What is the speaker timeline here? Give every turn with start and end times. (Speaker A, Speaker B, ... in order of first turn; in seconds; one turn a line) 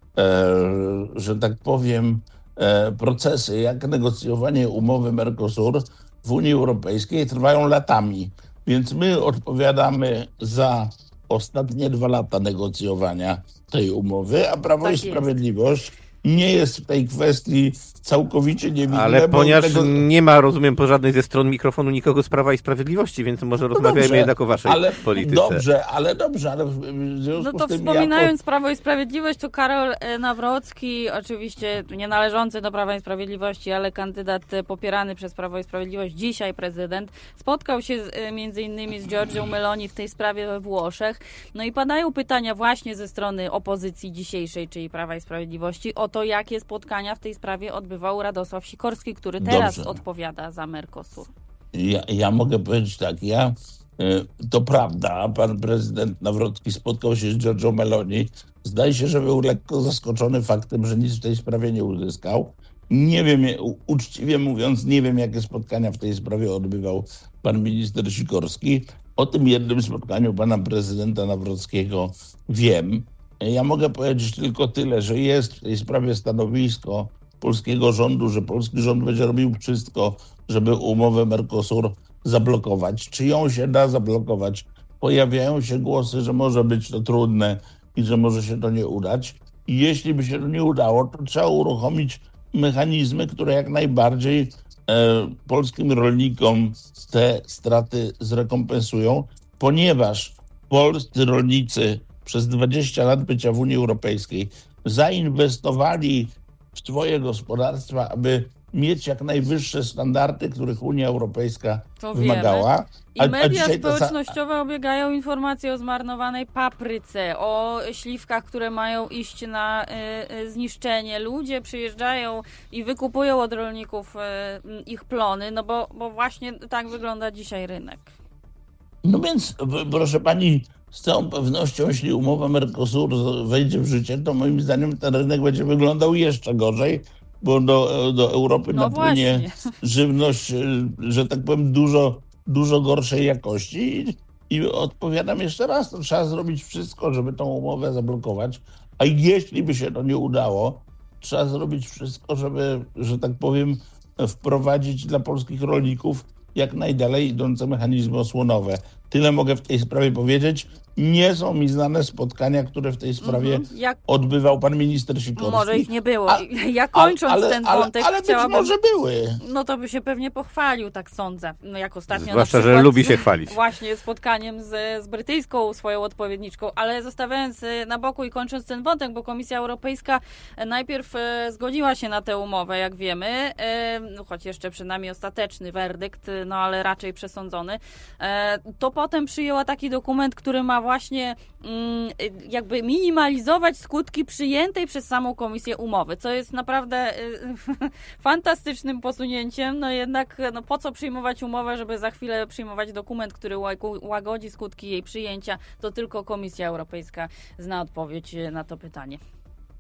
Speaker A: 0.2-20.1
Speaker B: 14.8-15.3
Speaker C: 18.9-25.6
Speaker A: 23.7-28.4
Speaker B: 27.4-51.3
Speaker A: 49.4-50.0
Speaker A: 51.7-114.2
Speaker B: 112.0-128.1
Speaker A: 129.0-169.4
Speaker B: 138.7-139.6
Speaker B: 163.2-164.0
Speaker B: 165.4-168.7
Speaker B: 169.4-209.2
Speaker C: 172.1-173.6